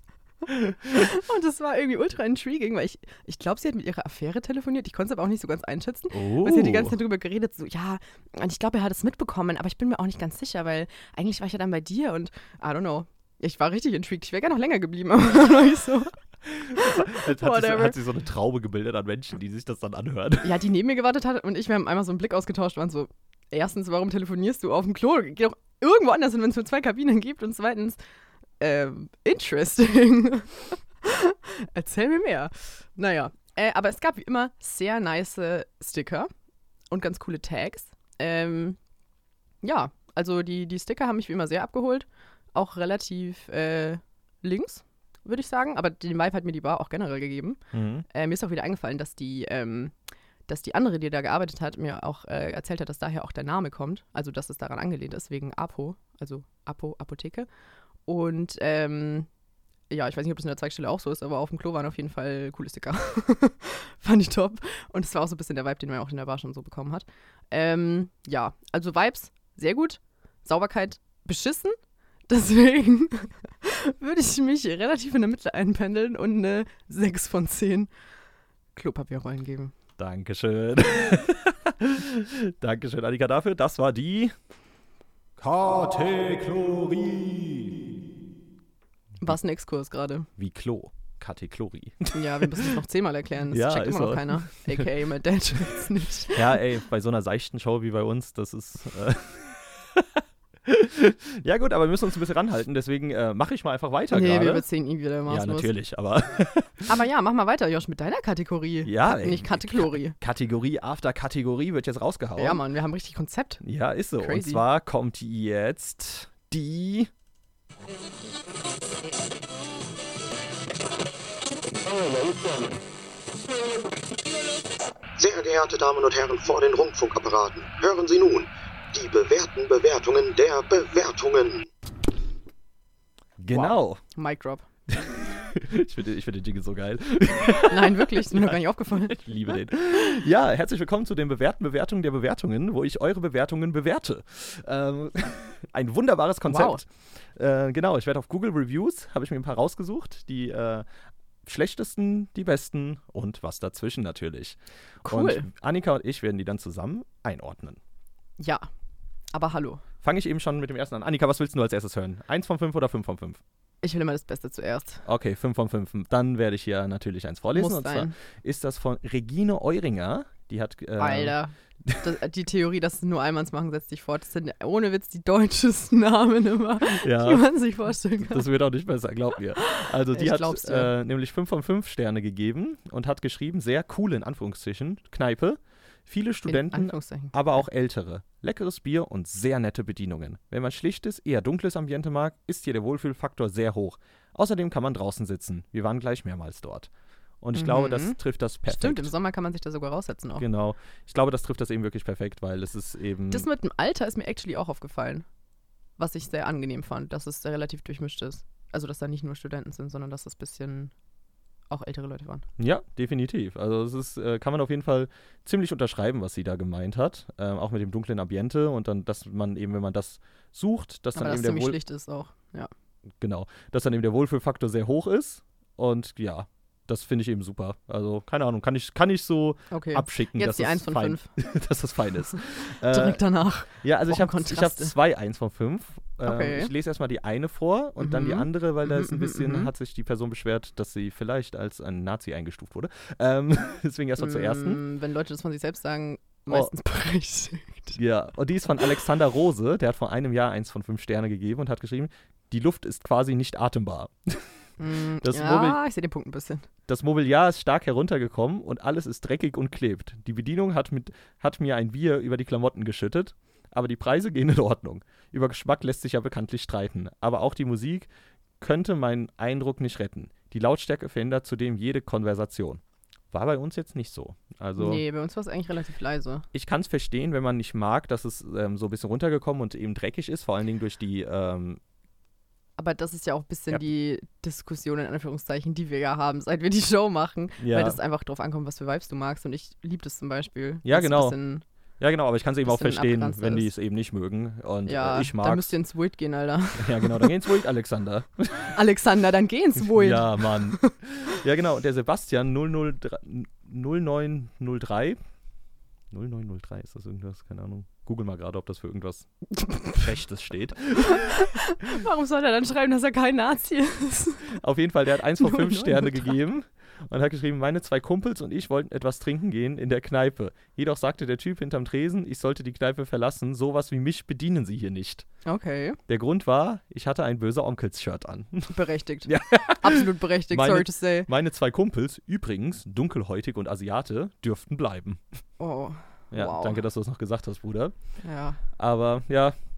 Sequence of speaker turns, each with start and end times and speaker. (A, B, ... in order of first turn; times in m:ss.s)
0:00.5-0:16.1 A
0:06.1-0:07.0 B
0:16.5-0:20.6 B
0:16.8-0:18.0 A
0:20.4-0:28.0 A
0:28.6-0:36.3 A
0:36.9-0:38.8 A
0:39.6-0:47.6 A
0:47.7-0:48.0 B
0:48.1-0:49.9 A
0:50.5-0:57.5 A
0:58.1-0:59.3 A
0:59.9-1:11.8 A
1:12.3-1:17.9 A
1:18.8-1:19.7 A
1:20.0-1:24.4 B
1:25.4-1:27.8 B
1:29.2-1:30.3 A
1:30.4-1:32.7 B
1:32.1-1:36.5 A
1:33.5-1:34.8 B
1:36.3-1:40.1 B
1:40.6-1:44.7 B
1:44.1-1:45.7 A
1:45.3-1:46.9 B
1:46.9-1:50.2 A
1:48.8-1:52.6 B
1:52.4-1:53.6 A
1:53.6-1:57.1 B
1:54.2-1:54.6 A
2:05.2-2:11.7 C
2:13.4-2:14.0 B
2:13.5-2:14.6 A
2:14.9-2:30.9 B
2:17.7-2:19.6 A
2:26.5-2:26.8 A
2:31.4-2:37.8 B
2:35.0-2:35.5 A
2:38.4-2:38.7 A
2:39.3-2:39.8 A
2:40.0-2:43.4 B
2:43.8-2:45.0 A
2:45.0-2:52.0 B
2:47.5-2:48.1 A
2:51.0-2:58.5 A
2:57.0-2:57.5 B
2:58.2-3:16.9 B
2:59.6-3:00.9 A
3:06.5-3:07.6 A
3:17.4-3:19.1 B
3:17.6-3:20.4 A
3:20.4-3:23.5 B
3:23.3-3:25.2 A
3:26.0-3:30.9 A
3:31.7-3:32.5 A
3:32.6-3:41.8 B
3:41.1-3:42.7 A
3:43.2-4:04.8 B
3:49.7-3:51.3 A
3:52.9-3:54.9 A
3:56.2-3:56.7 A
3:58.0-3:59.7 A
4:04.2-4:08.0 A
4:08.0-4:14.5 B
4:14.8-4:16.7 A
4:15.2-4:15.8 B
4:16.9-4:28.1 B
4:28.6-4:35.0 B
4:34.8-4:36.5 A
4:36.5-4:41.8 B
4:42.8-4:51.6 A
4:47.6-4:48.0 B
4:50.8-4:51.4 B
4:52.0-4:55.8 B
4:52.6-4:53.7 A
4:54.9-4:57.3 A
4:56.8-4:58.7 B
4:58.8-5:00.9 A
4:59.8-5:05.2 B
5:06.1-5:09.3 B
5:09.9-5:11.3 B
5:11.1-5:14.5 A
5:14.5-5:25.3 B
5:15.4-5:16.4 A
5:25.5-5:26.0 A
5:26.1-5:35.2 B
5:28.7-5:31.3 A
5:35.6-5:36.8 A
5:36.3-5:37.9 B
5:38.2-5:38.6 A
5:38.8-5:39.6 B